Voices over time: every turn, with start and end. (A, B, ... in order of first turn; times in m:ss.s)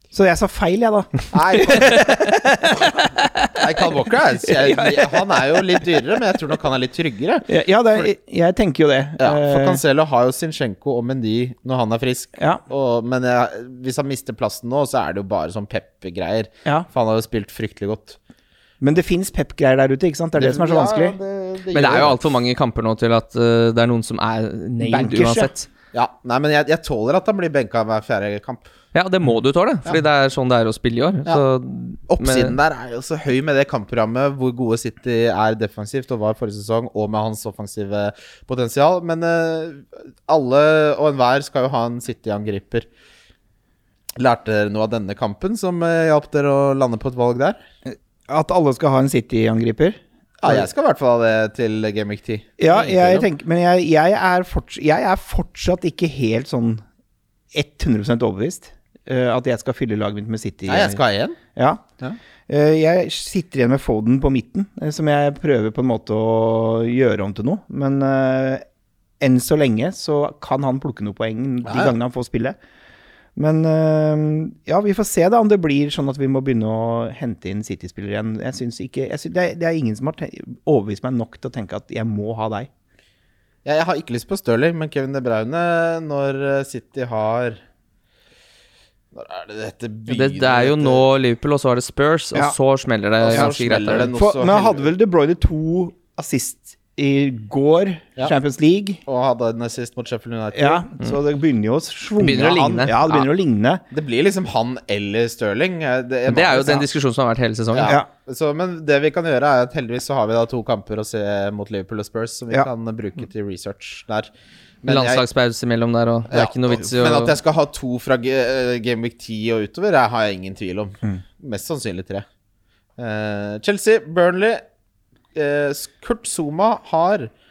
0:00.1-0:03.5 A
0:01.3-0:02.1 B
0:03.6-0:07.5 B
0:04.4-0:05.8 A
0:07.5-0:09.8 A
0:09.2-0:18.2 B
0:18.8-0:21.2 A
0:20.4-0:22.3 B
0:21.7-0:25.7 C
0:24.8-0:25.5 A
0:25.9-0:28.7 B
0:28.9-0:32.5 C
0:32.1-0:42.9 B
0:44.2-0:47.6 B
0:47.9-0:50.7 A
0:50.4-0:53.3 B
0:52.6-0:56.8 A
0:57.5-1:01.0 A
1:00.7-1:01.4 B
1:01.6-1:01.8 A
1:02.5-1:08.6 A
1:09.2-1:12.6 A
1:11.6-1:11.9 B
1:13.4-1:22.7 A
1:23.6-1:27.6 B
1:29.1-1:31.0 B
1:30.1-1:34.1 C
1:33.2-1:34.9 B
1:34.1-1:39.0 A
1:39.0-1:40.9 B
1:40.5-1:43.8 A
1:42.2-1:43.2 C
1:43.9-1:46.9 B
1:46.3-1:48.0 C
1:47.7-1:54.3 B
1:54.8-1:55.2 B
1:54.9-1:57.3 C
1:56.3-2:02.2 B
2:03.0-2:04.6 B
2:05.3-2:07.3 B